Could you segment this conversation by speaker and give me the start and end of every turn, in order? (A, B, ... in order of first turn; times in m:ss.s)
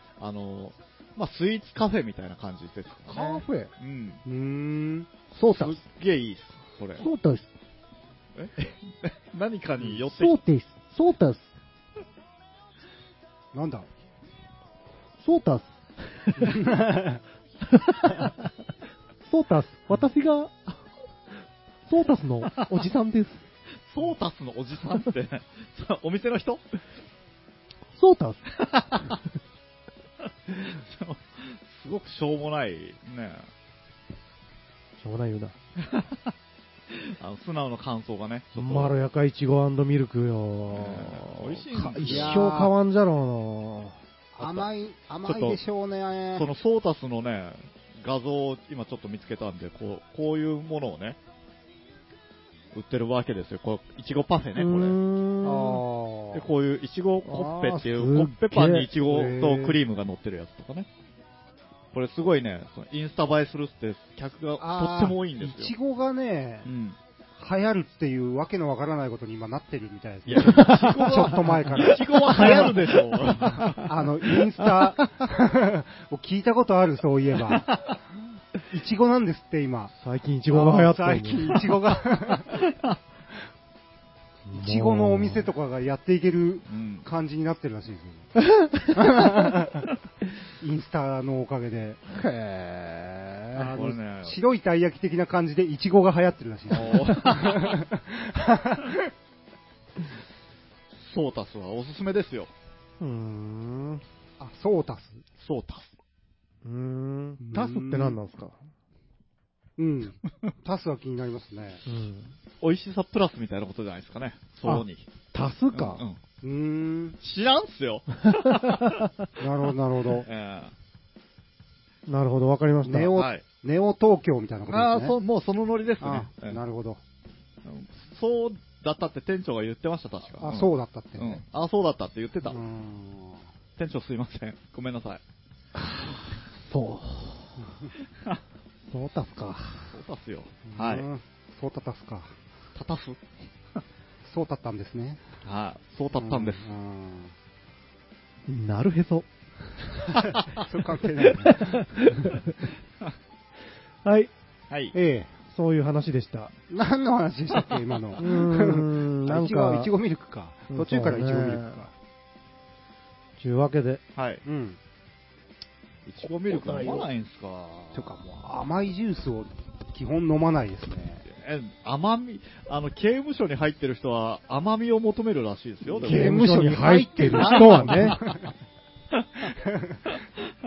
0:00.2-0:04.2 A
0:03.1-0:03.7 B
0:03.2-0:03.4 C
0:04.2-0:05.1 C
0:05.3-0:05.8 B
0:05.4-0:07.1 A
0:07.0-0:07.5 B
0:08.4-0:10.4 A
0:10.1-0:11.5 B
0:13.5-0:13.9 C
0:15.2-0:16.3 B
0:16.4-0:17.2 C
0:17.9-0:18.3 B
0:19.2-0:20.6 B
0:21.9-0:23.4 B
0:23.9-0:26.6 A
0:28.0-0:28.4 B
0:28.5-0:29.2 A
0:30.5-0:33.5 A
0:35.0-0:35.6 B
0:35.8-0:36.3 A
0:36.9-0:38.9 A
0:38.6-0:44.0 B
0:40.7-0:42.7 A
0:41.8-0:42.7 C
0:44.4-0:46.5 C
0:44.4-0:44.7 A
0:45.2-0:45.6 A
0:46.3-0:51.2 A
0:52.7-0:55.0 A
0:54.6-0:55.8 B
0:55.4-0:56.5 C
0:56.3-1:00.9 A
0:57.2-0:58.9 B
0:59.0-0:59.8 C
1:01.9-1:05.7 A
1:04.6-1:06.7 C
1:06.6-1:07.0 A
1:07.4-1:17.8 C
1:10.3-1:13.8 A
1:10.4-1:11.1 B
1:17.5-1:17.9 A
1:18.7-1:19.9 C
1:20.0-1:21.5 B
1:20.5-1:22.6 C
1:24.5-1:25.5 B
1:24.6-1:28.3 C
1:26.7-1:27.1 A
1:28.9-1:29.9 C
1:30.6-1:32.0 C
1:32.1-1:33.7 B
1:33.6-1:39.0 C
1:33.7-1:34.4 A
1:36.7-1:37.8 A
1:41.0-1:42.5 A
1:43.0-1:44.0 B
1:44.4-1:45.2 C
1:45.4-1:46.0 A
1:46.6-1:48.6 B
1:47.4-1:48.2 C
1:49.8-1:51.8 C
1:51.9-1:52.3 B
1:52.6-1:55.1 A
1:54.6-1:56.0 B
1:55.7-1:56.2 A
1:56.4-1:57.2 C
1:57.2-1:59.1 A
1:58.6-1:59.0 B
1:59.4-2:00.3 C
2:00.2-2:00.7 A
2:02.1-2:03.2 B
2:02.8-2:05.2 C
2:03.2-2:03.4 A
2:04.7-2:06.6 A
2:06.0-2:07.0 C
2:07.6-2:12.6 A
2:10.4-2:11.4 C
2:12.4-2:13.5 C
2:13.8-2:15.2 A
2:16.6-2:17.5 B
2:18.9-2:19.9 B
2:19.9-2:21.1 A
2:20.7-2:22.4 C
2:22.8-2:23.2 A
2:24.2-2:25.2 C
2:25.4-2:26.7 A
2:26.2-2:27.3 C
2:28.5-2:29.3 B
2:30.2-2:32.1 C
2:31.5-2:32.5 B
2:34.0-2:34.3 B
2:34.7-2:35.0 A
2:34.9-2:35.3 C
2:35.5-2:36.5 B
2:36.7-2:41.9 C
2:38.2-2:39.9 B
2:40.7-2:41.8 B
2:43.4-2:44.0 B
2:44.2-2:44.4 A
2:44.5-2:44.8 C
2:46.1-2:48.3 A
2:46.5-2:47.0 B
2:47.9-2:51.2 C
2:51.2-2:58.4 A
2:55.9-2:58.5 C
2:56.0-2:58.2 B
2:59.2-2:59.5 A